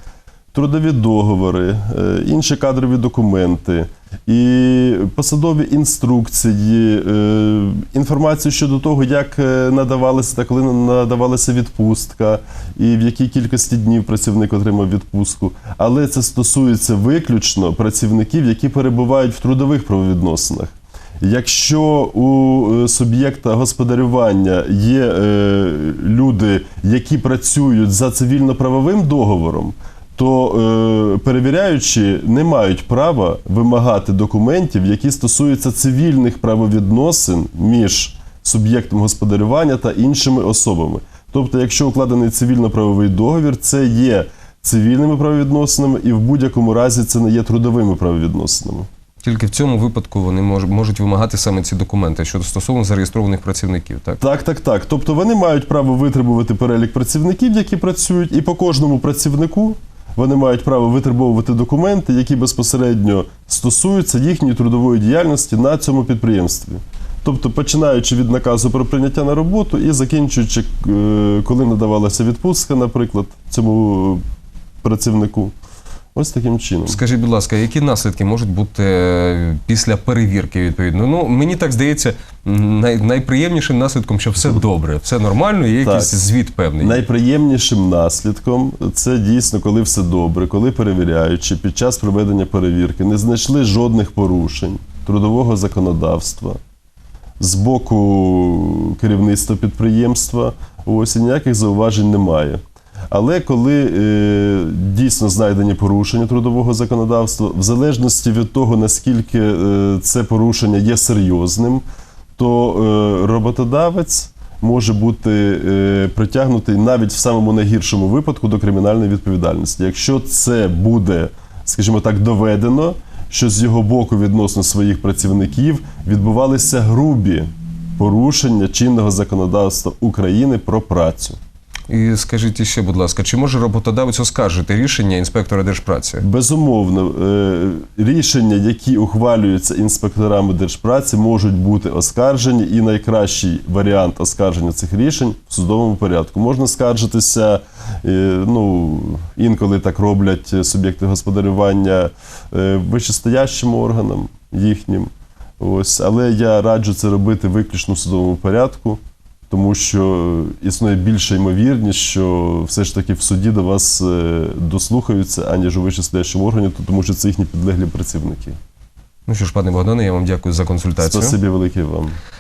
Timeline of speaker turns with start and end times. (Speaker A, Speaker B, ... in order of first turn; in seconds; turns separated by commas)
Speaker A: 0.5-48.9, Speaker B: 49.2-54.2, Speaker A: 54.2-74.2, Speaker A: 74.8-75.5, Speaker A: 76.2-77.0, Speaker B: 76.9-87.0, Speaker A: 85.8-86.2, Speaker A: 86.8-96.6, Speaker A: 97.4-111.8, Speaker A: 112.4-131.4, Speaker B: 131.9-136.2, Speaker A: 136.2-168.6, Speaker B: 169.3-171.4, Speaker A: 171.0-172.2